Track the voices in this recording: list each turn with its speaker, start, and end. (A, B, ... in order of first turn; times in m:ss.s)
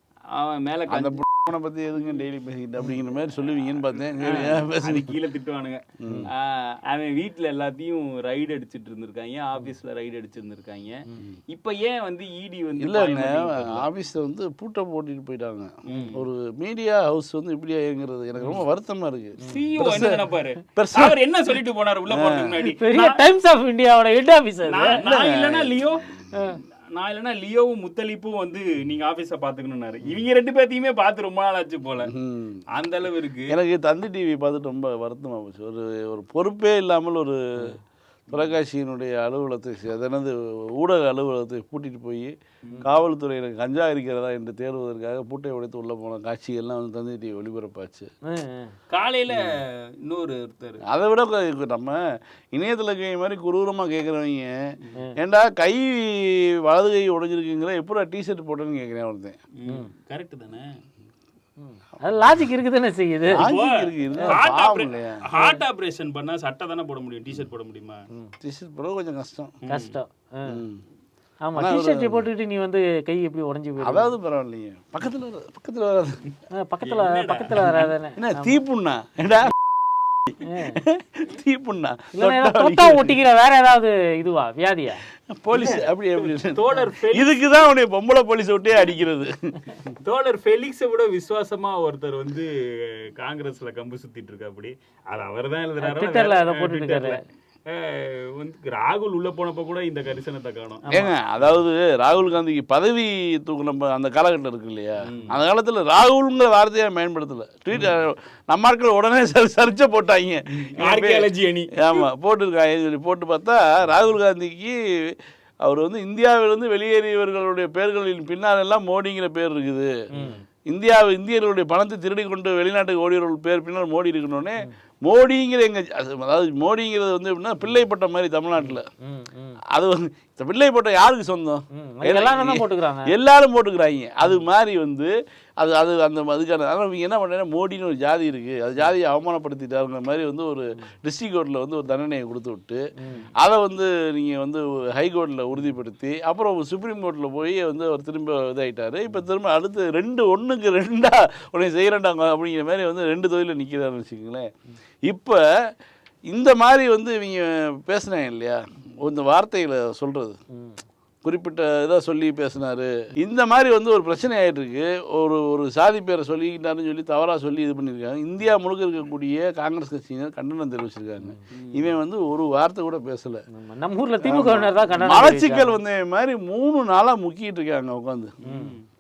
0:00.4-0:01.3 A
0:00.9-0:05.1 B
0:04.2-0:11.0 A
0:06.0-0:06.3 B
0:11.5-0:13.9 A
0:12.8-0:20.2 B
0:15.9-0:16.2 A
0:19.5-0:23.2 A
0:20.8-0:21.2 B
0:22.1-0:22.4 B
0:22.7-0:25.0 C
0:24.7-0:26.1 A
0:24.9-0:25.8 B
0:26.9-0:32.1 A
0:32.1-0:32.6 B
0:32.8-0:33.5 A
0:33.5-0:37.7 B
0:38.3-0:48.1 B
0:48.3-0:48.7 C
0:48.9-0:50.8 A
0:50.9-0:52.0 B
0:52.5-0:54.5 B
0:55.2-0:59.4 B
0:59.6-1:00.7 A
1:01.6-1:03.5 C
1:03.3-1:05.2 B
1:03.4-1:08.0 A
1:08.4-1:09.6 B
1:09.6-1:10.0 A
1:09.7-1:10.6 C
1:10.5-1:10.8 B
1:11.4-1:14.1 C
1:11.6-1:12.3 B
1:13.8-1:16.2 B
1:16.5-1:18.6 C
1:16.8-1:17.9 A
1:18.2-1:20.3 B
1:20.4-1:20.8 C
1:20.8-1:23.2 B
1:22.2-1:25.0 C
1:25.3-1:29.6 B
1:25.6-1:27.3 A
1:30.0-1:32.5 A
1:33.2-1:40.9 A
1:35.8-1:37.2 C
1:40.9-1:51.3 B
1:45.1-1:45.4 A
1:50.5-1:52.1 A
1:51.8-1:59.9 B
2:00.7-2:08.9 B
2:08.6-2:09.6 C
2:09.7-2:22.8 B
2:11.7-2:13.1 C
2:23.0-2:23.3 C
2:23.4-2:34.5 B
2:35.1-2:35.4 B
2:36.3-2:40.4 B
2:40.5-2:40.8 C
2:41.2-2:53.4 B
2:51.5-2:51.9 A
2:53.5-2:55.8 C
2:54.2-2:58.3 B
2:58.4-2:58.8 A
2:58.4-2:58.7 C